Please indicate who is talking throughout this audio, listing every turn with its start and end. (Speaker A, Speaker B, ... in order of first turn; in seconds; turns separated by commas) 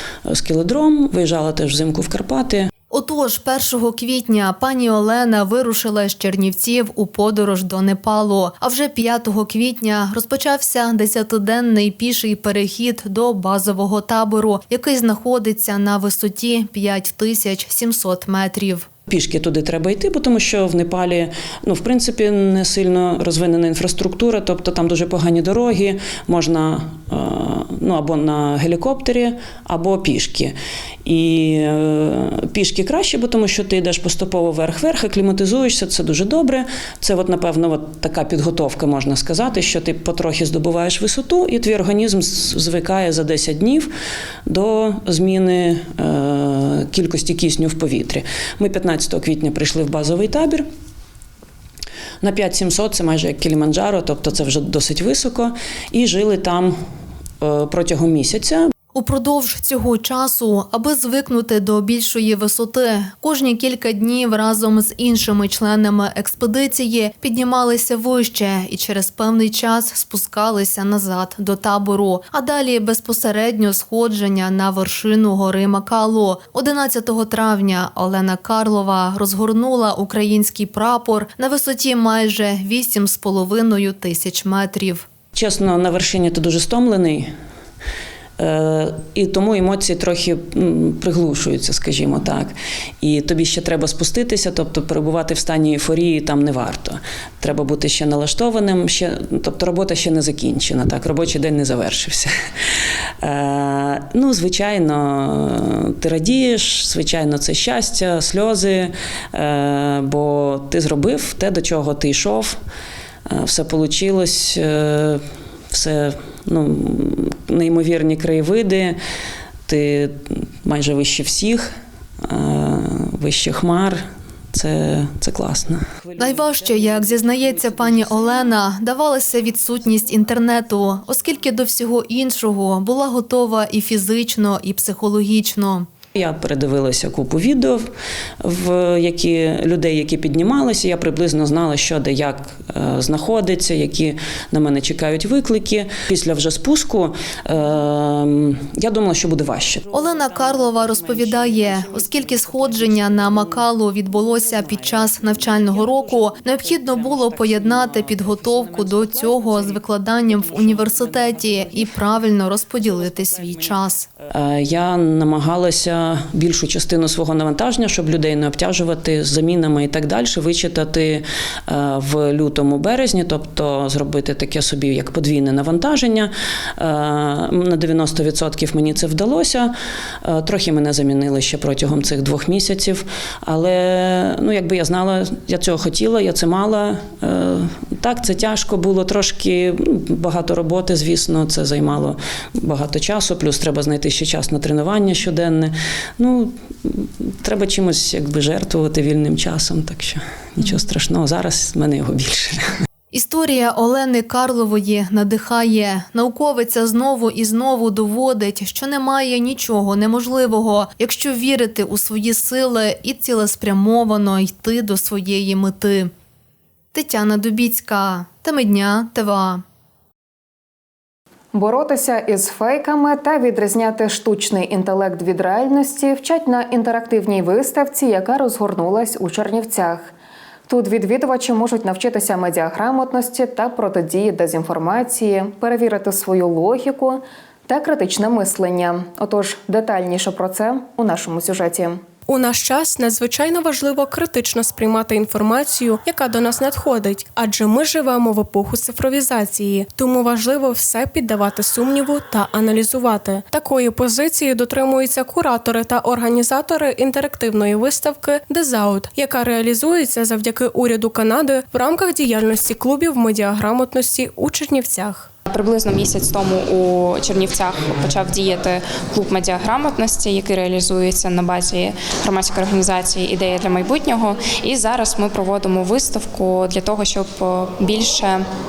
Speaker A: 0.3-2.7, Speaker B: 2.9-18.9, Speaker A: 19.1-43.9, Speaker A: 44.5-50.6, Speaker A: 52.2-56.7, Speaker A: 57.4-58.7, Speaker B: 58.9-85.0, Speaker A: 85.3-87.3, Speaker A: 88.4-102.3, Speaker A: 103.2-112.6, Speaker A: 113.3-119.0, Speaker A: 119.7-121.7, Speaker A: 122.2-126.1, Speaker B: 126.2-135.8, Speaker A: 127.3-128.1, Speaker A: 136.1-137.9, Speaker A: 138.4-150.0, Speaker B: 149.9-164.1, Speaker A: 164.3-202.6, Speaker B: 203.1-216.1, Speaker B: 216.9-219.6, Speaker C: 221.5-230.1, Speaker C: 230.7-242.0, Speaker D: 242.3-265.3, Speaker E: 265.5-278.4